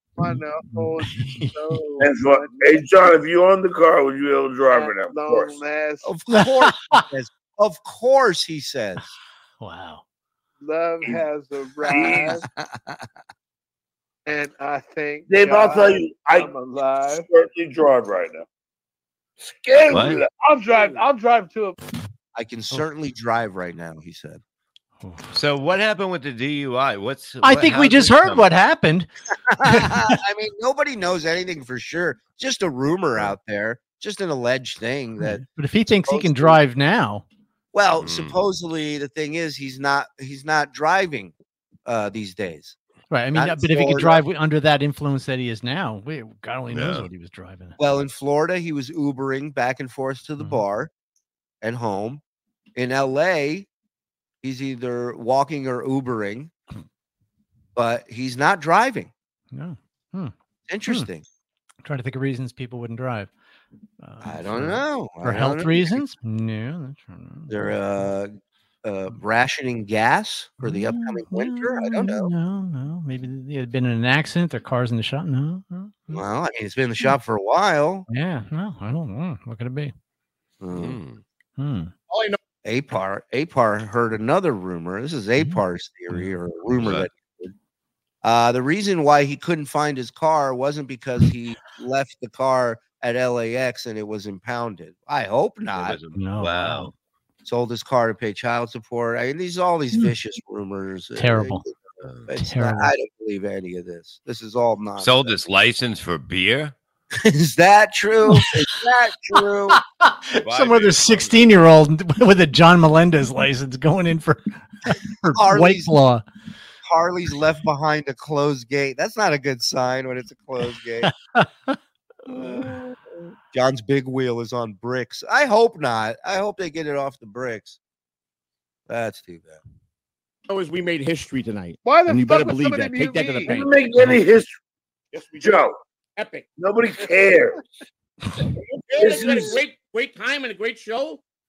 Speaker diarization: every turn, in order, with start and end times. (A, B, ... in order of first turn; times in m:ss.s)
0:00.2-0:02.8 A
0:00.2-0:01.7 B
0:02.0-0:05.6 C
0:04.7-0:06.2 A
0:06.0-0:09.1 D
0:06.3-0:07.0 B
0:09.6-0:10.0 B
0:10.6-0:12.4 A
0:11.8-0:12.4 C
0:12.4-0:13.0 D
0:14.2-0:17.3 A
0:15.3-0:16.6 C
0:17.1-0:18.4 C
0:19.4-0:21.0 C
0:19.9-0:20.2 E
0:20.3-0:21.8 A
0:22.3-0:24.4 D
0:25.3-0:28.5 E
0:27.4-0:29.1 B
0:29.5-0:36.6 D
0:29.6-0:30.2 B
0:35.2-0:37.2 B
0:37.7-0:41.3 D
0:38.0-0:38.4 E
0:41.8-0:42.8 D
0:43.1-0:47.8 B
0:43.3-0:44.2 D
0:46.7-0:47.1 E
0:47.8-0:50.9 D
0:51.6-0:52.2 D
0:52.8-0:53.7 D
0:54.4-0:56.5 D
0:57.8-0:59.1 D
0:59.5-1:00.3 B
1:00.7-1:01.2 D
1:01.8-1:03.3 B
1:04.0-1:07.5 B
1:04.2-1:06.0 D
1:07.5-1:12.3 D
1:10.6-1:16.2 B
1:16.1-1:18.0 D
1:18.1-1:19.9 B
1:20.6-1:21.0 D
1:20.7-1:21.2 E
1:21.6-1:21.9 B
1:22.1-1:22.4 F
1:22.6-1:27.5 D
1:26.8-1:27.1 E
1:28.2-1:36.0 D
1:35.8-1:36.9 E
1:36.1-1:36.9 B
1:37.4-1:45.4 D
1:41.2-1:41.6 B
1:42.0-1:42.3 E
1:42.4-1:42.9 B
1:45.0-1:46.7 E
1:47.2-1:49.8 D
1:48.3-1:48.5 B
1:49.7-1:56.2 B
1:50.4-1:51.6 E
1:55.3-1:55.9 D
1:56.8-2:01.1 D
2:01.0-2:01.8 B
2:02.3-2:02.7 D
2:02.3-2:02.7 B
2:03.5-2:07.8 D
2:08.9-2:09.6 D
2:10.5-2:13.8 F
2:11.8-2:13.6 A
2:13.4-2:14.5 C
2:15.1-2:15.6 F
2:15.4-2:15.8 C
2:16.2-2:16.4 F
2:16.6-2:17.6 C
2:18.9-2:21.2 F
2:18.9-2:19.6 C